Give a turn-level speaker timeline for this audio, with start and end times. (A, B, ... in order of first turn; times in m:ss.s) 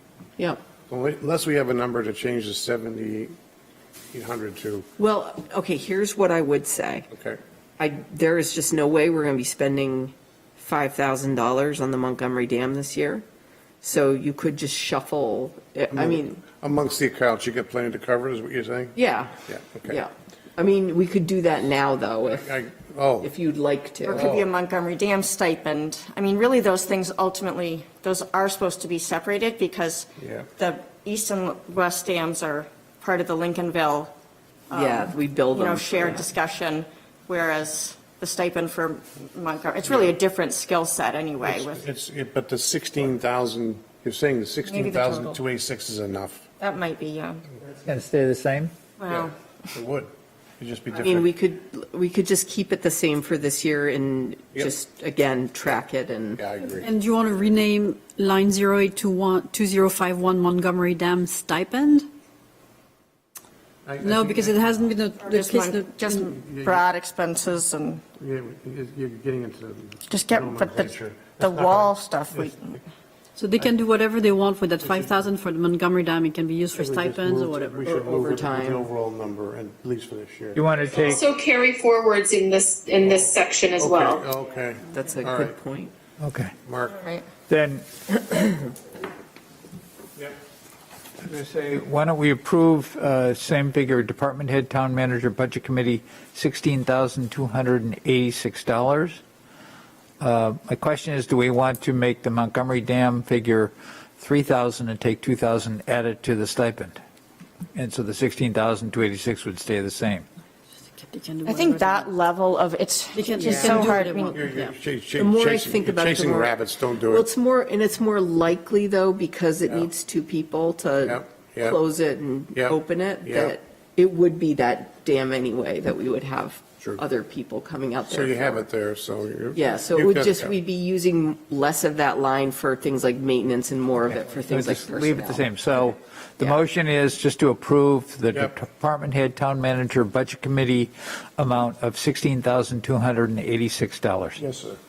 0:00.9-0:03.4 A
0:04.1-0:04.9 A
0:05.0-0:07.1 B
0:07.1-0:07.4 A
0:07.8-0:13.2 B
0:13.8-0:16.4 B
0:15.9-0:19.0 A
0:19.0-0:22.5 B
0:19.5-0:20.0 A
0:22.2-0:23.3 A
0:23.2-0:24.2 B
0:24.1-0:34.1 C
0:24.1-0:24.5 A
0:30.2-0:30.5 A
0:34.7-0:41.9 C
0:34.7-0:36.3 B
0:39.9-0:40.1 A
0:41.4-0:46.5 A
0:44.7-0:45.4 C
0:46.6-0:47.4 C
0:47.8-0:48.7 D
0:49.0-0:49.3 C
0:49.1-0:51.3 A
0:51.0-0:56.4 B
0:56.4-0:56.9 A
0:56.8-1:02.0 E
1:03.8-1:05.0 A
1:04.0-1:06.4 E
1:05.2-1:08.0 C
1:06.4-1:06.8 A
1:08.2-1:12.8 A
1:10.1-1:12.8 C
1:13.4-1:17.9 E
1:14.8-1:15.3 A
1:16.8-1:20.6 A
1:17.9-1:18.9 B
1:20.6-1:21.2 D
1:21.0-1:24.2 F
1:23.0-1:25.6 A
1:24.9-1:25.9 B
1:26.2-1:26.5 D
1:26.6-1:27.1 A
1:27.5-1:27.8 D
1:31.2-1:39.2 D
1:40.2-1:47.0 D
1:47.7-1:50.3 D
1:51.0-1:52.1 E
1:51.5-1:54.4 C
1:53.1-1:54.7 E
1:53.4-1:53.9 B
1:54.3-1:57.3 A
1:55.2-1:56.6 B
1:57.1-2:08.6 B
2:01.0-2:01.8 A
2:02.6-2:03.6 A
2:08.1-2:10.6 A
2:09.6-2:15.6 B
2:14.5-2:24.4 D
2:24.4-2:24.8 A